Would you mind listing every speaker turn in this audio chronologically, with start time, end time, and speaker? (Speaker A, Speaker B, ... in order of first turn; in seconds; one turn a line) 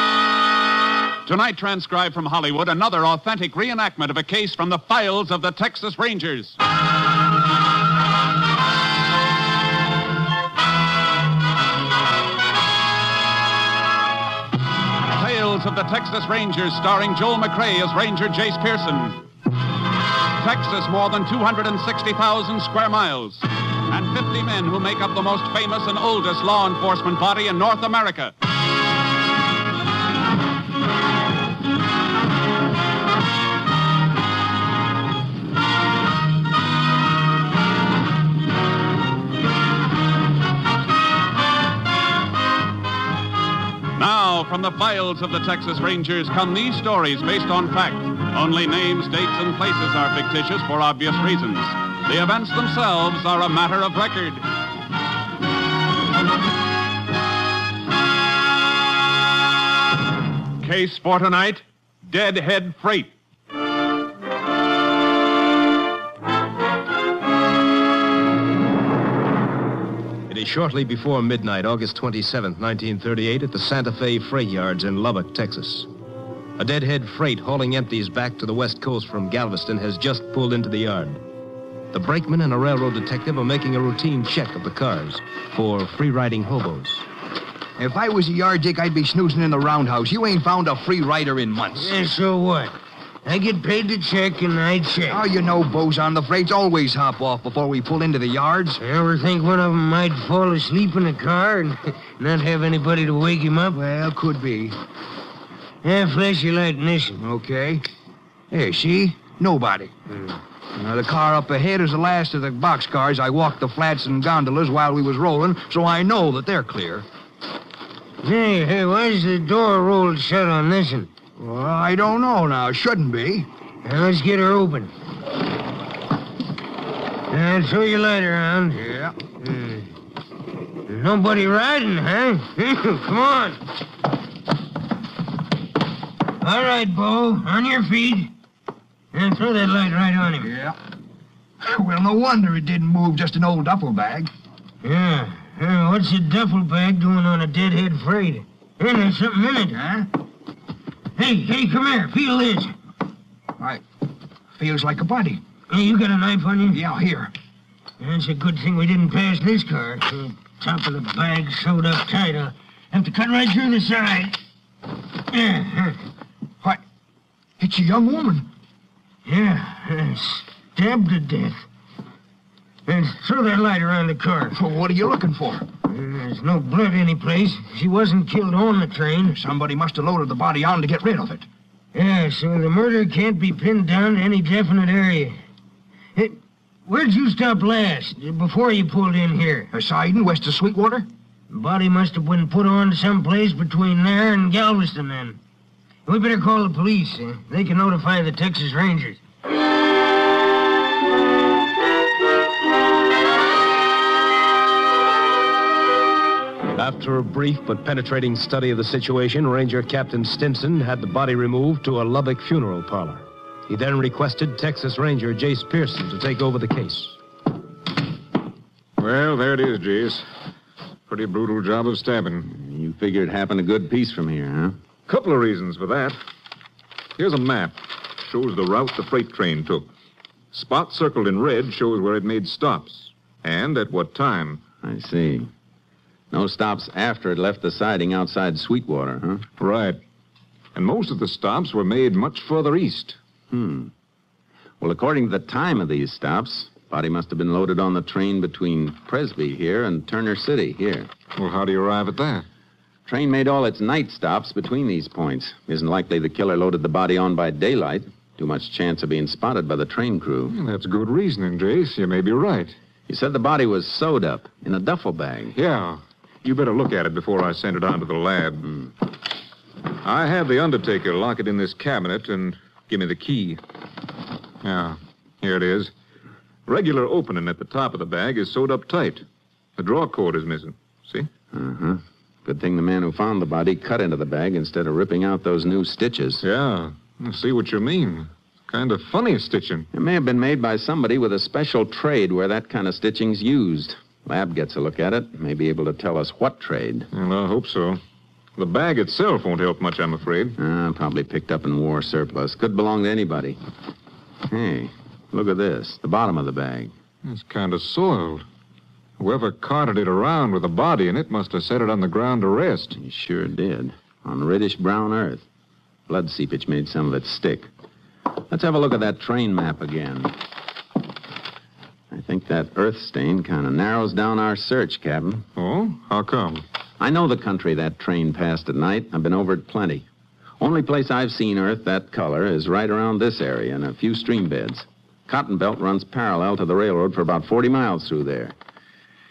Speaker A: 1.2-6.5
Speaker A: 15.2-19.2
Speaker A: 20.4-28.3
Speaker A: 44.0-54.4
Speaker A: 60.6-63.1
Speaker B: 70.3-75.9
Speaker B: 76.6-81.2
Speaker B: 81.9-87.0
Speaker C: 87.8-92.0
Speaker D: 91.8-95.2
Speaker C: 95.1-98.8
Speaker D: 98.8-103.8
Speaker C: 103.7-104.8
Speaker D: 105.8-107.2
Speaker C: 107.2-107.8
Speaker C: 108.5-110.0
Speaker C: 110.8-117.0
Speaker D: 118.2-121.1
Speaker C: 121.4-123.5
Speaker D: 123.8-124.9
Speaker D: 127.3-128.8
Speaker C: 128.8-129.1
Speaker D: 129.4-129.9
Speaker D: 130.9-133.6
Speaker D: 136.4-138.3
Speaker D: 139.1-140.5
Speaker C: 140.4-140.8
Speaker C: 141.6-144.3
Speaker D: 144.8-149.8
Speaker C: 149.7-150.1
Speaker D: 151.2-152.7
Speaker C: 154.6-155.4
Speaker D: 155.7-156.8
Speaker C: 156.7-157.3
Speaker D: 158.0-164.4
Speaker D: 165.3-166.0
Speaker C: 167.6-168.5
Speaker D: 169.2-171.7
Speaker D: 172.8-174.6
Speaker C: 174.5-175.7
Speaker D: 175.8-179.4
Speaker C: 179.2-181.5
Speaker D: 181.9-185.4
Speaker D: 186.2-189.7
Speaker C: 189.7-191.1
Speaker D: 191.5-195.4
Speaker D: 196.1-199.2
Speaker B: 206.8-217.2
Speaker E: 219.0-220.2
Speaker E: 221.1-222.4
Speaker F: 222.4-224.8
Speaker E: 225.1-226.2
Speaker E: 227.2-229.9
Speaker E: 230.5-234.6
Speaker F: 234.8-235.5
Speaker F: 236.3-239.4
Speaker E: 239.6-240.0
Speaker E: 240.7-243.2
Speaker F: 243.5-243.9
Speaker F: 244.8-251.1
Speaker E: 251.3-252.4
Speaker F: 253.1-260.6
Speaker E: 260.5-262.7
Speaker F: 263.1-265.6
Speaker E: 265.5-268.6
Speaker E: 270.0-273.6
Speaker E: 274.6-275.9
Speaker E: 276.6-279.2
Speaker E: 279.8-281.3
Speaker F: 281.5-286.4
Speaker E: 286.4-289.9
Speaker F: 289.9-297.1
Speaker E: 297.1-298.0
Speaker E: 298.6-300.6
Speaker F: 300.6-303.6
Speaker F: 304.5-306.9
Speaker E: 307.2-308.4
Speaker E: 309.2-312.9
Speaker F: 312.9-315.4
Speaker F: 316.1-317.7
Speaker F: 318.5-320.3
Speaker F: 322.1-325.4
Speaker E: 325.6-326.6
Speaker F: 327.0-330.1
Speaker F: 330.6-338.6